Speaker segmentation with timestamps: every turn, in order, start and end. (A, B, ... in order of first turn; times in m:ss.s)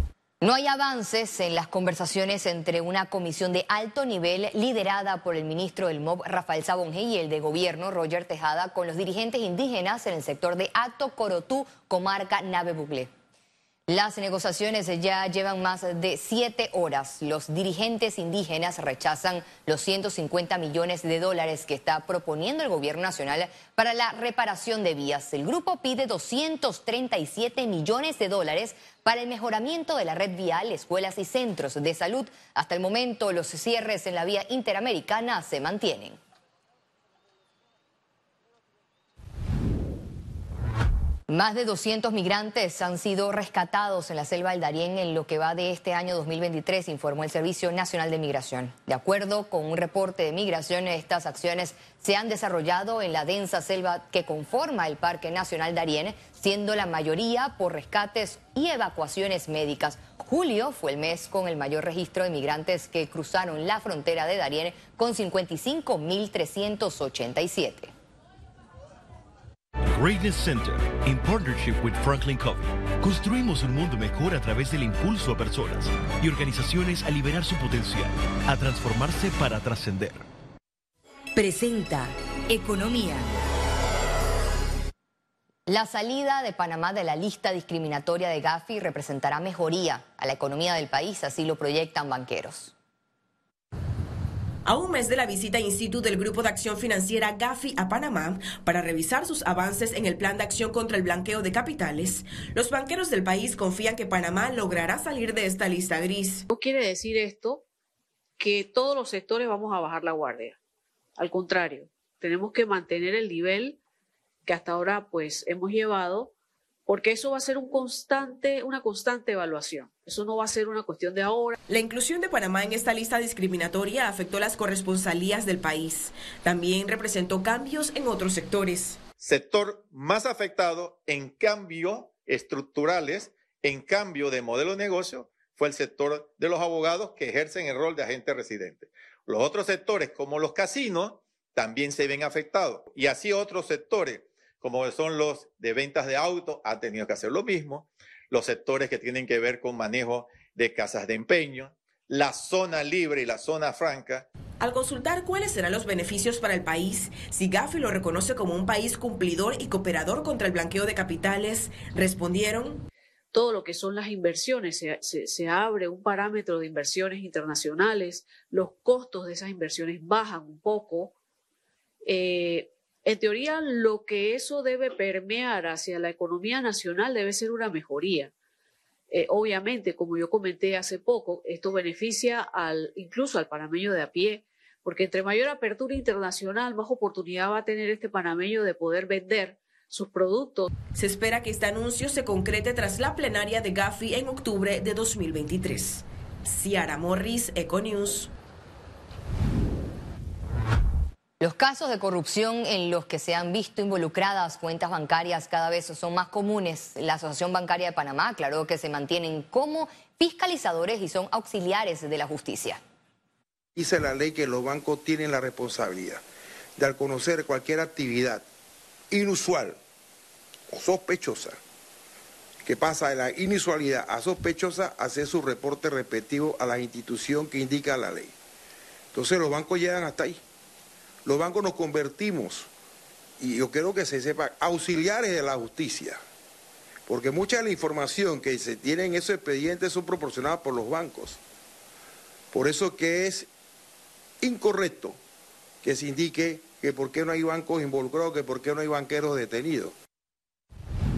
0:00.4-0:13.1 A
0:13.9-0:36.2 A
0:41.3-1:07.9 A
1:09.9-1:20.3 B
1:25.7-1:32.7 A
1:34.7-1:46.4 C
1:46.5-1:47.6 D
1:48.4-1:50.6 D
1:51.2-1:53.8 D
1:54.4-1:56.3 D
1:56.9-2:01.6 D
2:01.7-2:09.0 C
2:09.2-2:34.3 E
2:34.6-2:42.8 C
2:43.3-2:51.1 D
2:52.1-2:58.3 D
2:59.1-3:10.7 D
3:11.0-3:18.3 C
3:21.4-3:32.8 A
3:33.8-3:36.2 F
3:36.8-3:38.4 F
3:39.1-3:39.8 F
3:40.7-3:41.6 F
3:42.6-3:48.3 F
3:49.1-3:50.4 F
3:51.2-3:52.7 F
3:53.4-3:56.2 F
3:57.1-4:01.4 F
4:02.5-4:03.5 F
4:04.4-4:05.2 F
4:05.8-4:09.9 F